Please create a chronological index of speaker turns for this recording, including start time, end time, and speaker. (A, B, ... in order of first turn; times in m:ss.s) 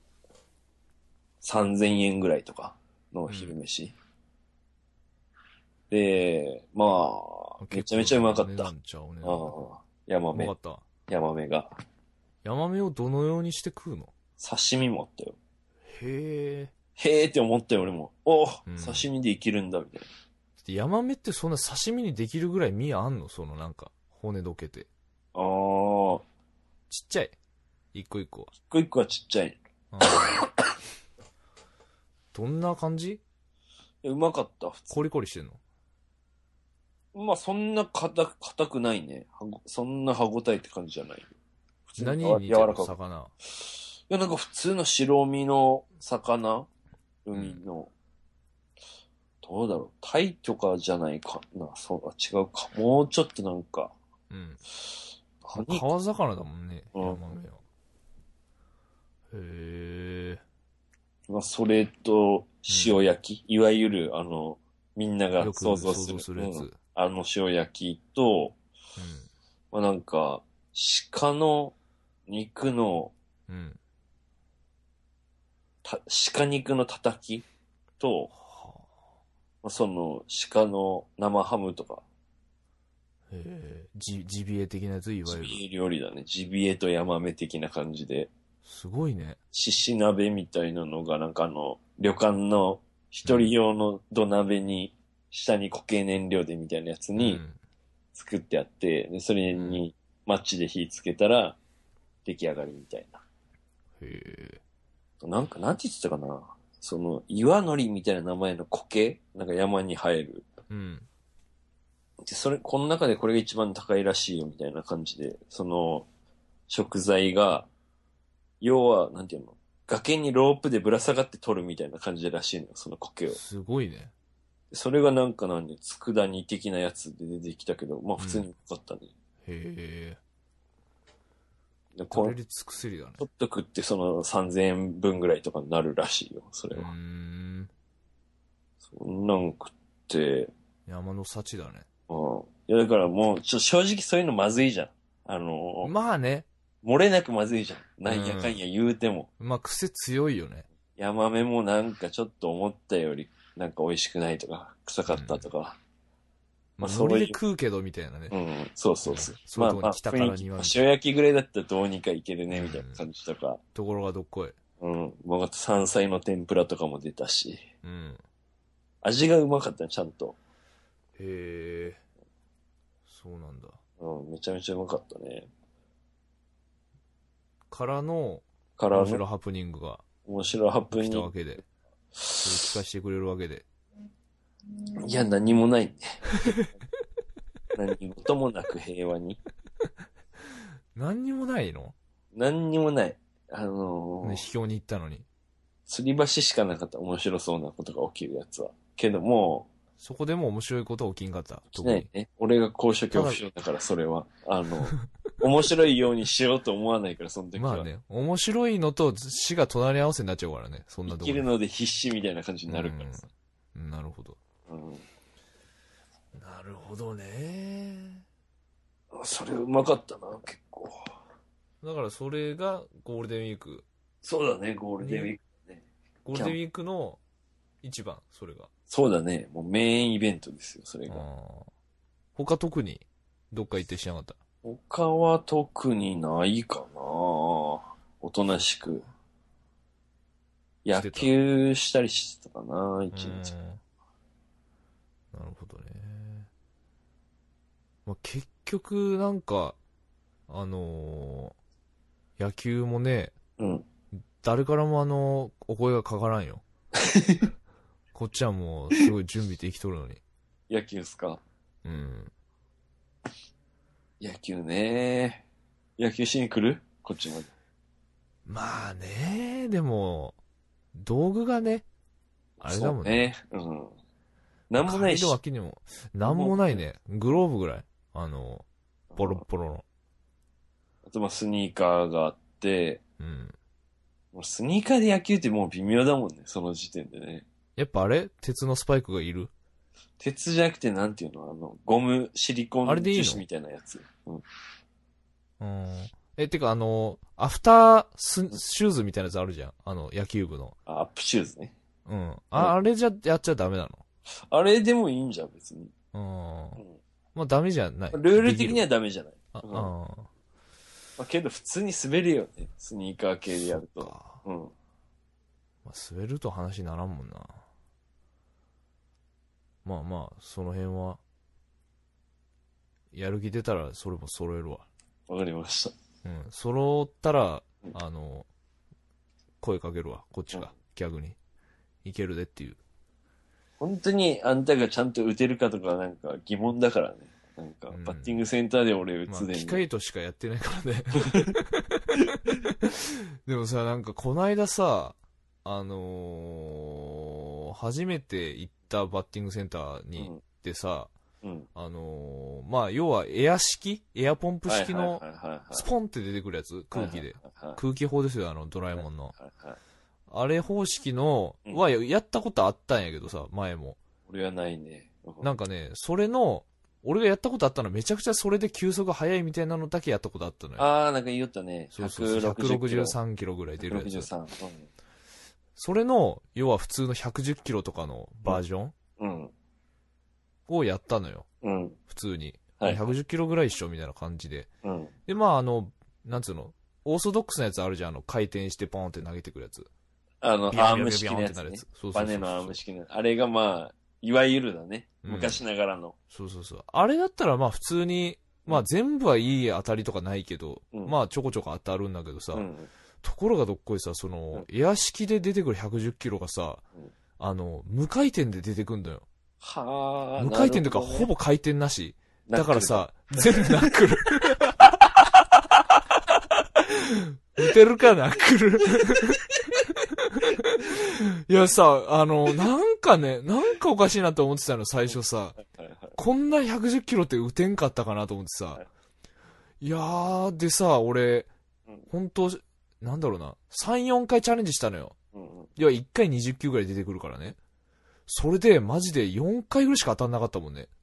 0:01.4-0:03.9 A
0:03.3-0:03.6 B
0:05.9-0:08.7 A
0:07.6-0:09.5 B
0:09.2-0:10.5 A
0:10.3-0:10.8 B
0:11.1-0:11.7 A
0:12.4-0:14.1 B
0:14.4-0:15.4 A
0:15.9-0:16.7 B
0:17.0-0:20.1 A
0:18.7-0:19.1 B
0:20.6-0:24.9 B
0:25.3-0:26.2 A
0:26.9-0:27.3 B
0:27.9-0:28.5 B
0:28.7-0:30.5 A
0:29.9-0:30.3 B
0:32.3-0:33.2 B
0:34.0-0:35.0 A
0:34.9-0:35.6 B
0:37.1-0:41.3 A
0:41.9-0:42.9 A
0:42.0-0:43.3 B
0:44.1-0:46.7 A
0:47.2-0:47.9 A
0:47.3-0:47.6 B
0:49.4-0:53.9 A
0:54.3-0:54.6 B
0:55.4-0:55.9 A
0:55.5-0:57.6 B
0:56.9-0:57.2 A
0:59.3-1:00.4 B
1:01.3-1:08.6 A
1:02.7-1:03.0 B
1:05.4-1:06.8 B
1:09.0-1:09.3 B
1:09.7-1:11.7 A
1:12.3-1:13.1 A
1:13.5-1:13.8 B
1:15.8-1:17.4 A
1:18.0-1:18.3 A
1:18.3-1:18.8 B
1:19.6-1:22.0 A
1:23.3-1:25.6 B
1:25.2-1:28.3 A
1:28.6-1:29.4 B
1:29.5-1:37.4 A
1:33.2-1:33.5 B
1:37.2-1:37.6 B
1:38.1-1:41.6 A
1:39.5-1:39.8 B
1:42.2-1:43.2 A
1:44.0-1:44.6 B
1:45.2-1:50.5 A
1:50.7-1:51.1 B
1:52.2-1:56.1 A
1:56.7-1:57.7 A
1:58.6-2:03.4 A
2:03.3-2:04.1 B
2:04.7-2:09.1 A
2:08.2-2:08.5 B
2:09.4-2:10.2 B
2:12.0-2:12.3 A
2:12.1-2:13.2 B
2:13.2-2:16.9 A
2:16.7-2:17.7 B
2:18.9-2:20.5 A
2:20.9-2:21.8 B
2:22.1-2:25.9 A
2:25.8-2:26.5 B
2:26.8-2:29.3 A
2:28.1-2:28.6 B
2:29.4-2:30.6 B
2:31.0-2:35.8 A
2:35.1-2:35.5 B
2:36.8-2:38.3 B
2:36.8-2:37.4 A
2:38.3-2:43.6 A
2:39.0-2:40.8 B
2:42.5-2:43.0 B
2:43.7-2:44.6 B
2:44.8-2:47.6 A
2:47.8-2:48.2 B
2:49.0-2:50.4 A
2:51.2-2:52.0 B
2:53.1-2:53.8 B
2:54.0-2:55.5 A
2:57.7-3:00.0 B
2:58.8-2:59.2 A
3:00.2-3:01.3 A
3:00.9-3:01.6 B
3:02.2-3:02.7 A
3:02.4-3:03.6 B
3:05.0-3:06.6 A
3:07.7-3:09.4 A
3:10.9-3:11.9 B
3:12.3-3:14.4 A
3:14.2-3:15.2 B
3:15.9-3:19.7 A
3:20.0-3:22.1 B
3:21.7-3:27.9 A
3:23.1-3:23.4 B
3:27.6-3:31.4 B
3:31.1-3:33.3 A
3:32.7-3:34.4 B
3:34.7-3:35.0 A
3:36.3-3:38.2 B
3:39.1-3:41.0 A
3:41.8-3:43.8 B
3:44.2-3:46.6 A
3:45.0-3:45.3 B
3:46.2-3:47.2 B
3:47.8-3:48.7 B
3:48.9-3:51.2 A
3:51.1-3:51.7 B
3:52.4-3:54.4 B
3:54.6-3:59.0 A
4:00.8-4:03.5 A
4:00.9-4:01.3 B
4:03.1-4:03.8 B
4:05.3-4:06.5 B
4:08.0-4:09.8 B
4:10.5-4:11.5 B
4:12.4-4:13.4 B
4:13.6-4:13.8 A
4:14.4-4:16.6 B
4:17.0-4:17.5 A
4:18.1-4:20.2 B
4:20.7-4:21.4 A
4:21.8-4:22.3 B
4:24.2-4:25.4 A
4:26.0-4:27.5 A
4:28.4-4:30.4 B
4:30.9-4:31.8 B
4:32.6-4:33.9 A
4:32.6-4:33.3 B
4:34.7-4:35.4 A
4:34.8-4:39.8 B
4:36.2-4:36.8 A
4:39.1-4:39.4 A
4:41.0-4:43.0 A
4:43.2-4:43.6 B
4:44.3-4:47.4 A
4:47.8-4:49.5 B
4:50.2-4:54.4 A
4:52.8-4:53.4 B
4:55.6-5:00.8 B
5:00.9-5:01.7 A
5:02.0-5:04.0 B
5:04.5-5:05.9 A
5:06.1-5:06.8 B
5:07.3-5:08.8 B
5:08.1-5:09.9 A
5:09.5-5:10.3 B
5:11.2-5:14.7 A
5:13.6-5:14.4 B
5:15.8-5:17.6 B
5:19.8-5:21.2 B
5:23.1-5:24.8 B
5:25.3-5:25.9 A
5:26.2-5:28.5 B
5:29.6-5:31.4 B
5:32.0-5:32.8 B
5:33.8-5:39.8 A
5:37.9-5:38.4 B
5:39.3-5:51.1 B
5:41.2-5:41.6 A
5:42.2-5:42.5 A
5:50.2-5:50.4 A
5:51.4-5:51.7 A
5:51.7-5:59.3 B
5:54.6-5:55.9 A
5:56.9-5:57.8 A
5:58.9-5:59.8 A
6:00.3-6:04.0 B
6:04.3-6:05.5 A
6:05.4-6:10.8 B
6:10.8-6:13.2 A
6:11.9-6:14.3 B
6:13.8-6:14.9 A
6:15.8-6:18.9 B
6:19.2-6:19.5 A
6:20.7-6:21.5 B
6:21.6-6:22.0 A
6:22.1-6:24.7 B
6:22.8-6:23.1 A
6:24.8-6:25.1 A
6:25.3-6:29.9 B
6:30.4-6:36.2 A
6:30.7-6:32.8 B
6:35.2-6:35.6 B
6:36.3-6:42.7 B
6:42.5-6:42.9 A
6:43.2-6:46.8 B
6:47.4-6:49.2 B
6:49.6-6:51.3 A
6:50.4-7:05.6 B
6:52.5-6:54.0 A
6:59.0-6:59.8 A
7:05.6-7:06.2 A
7:06.2-7:08.8 B
7:09.8-7:11.5 B
7:12.1-7:15.1 B
7:15.3-7:15.7 A
7:15.8-7:17.6 B
7:18.3-7:20.9 B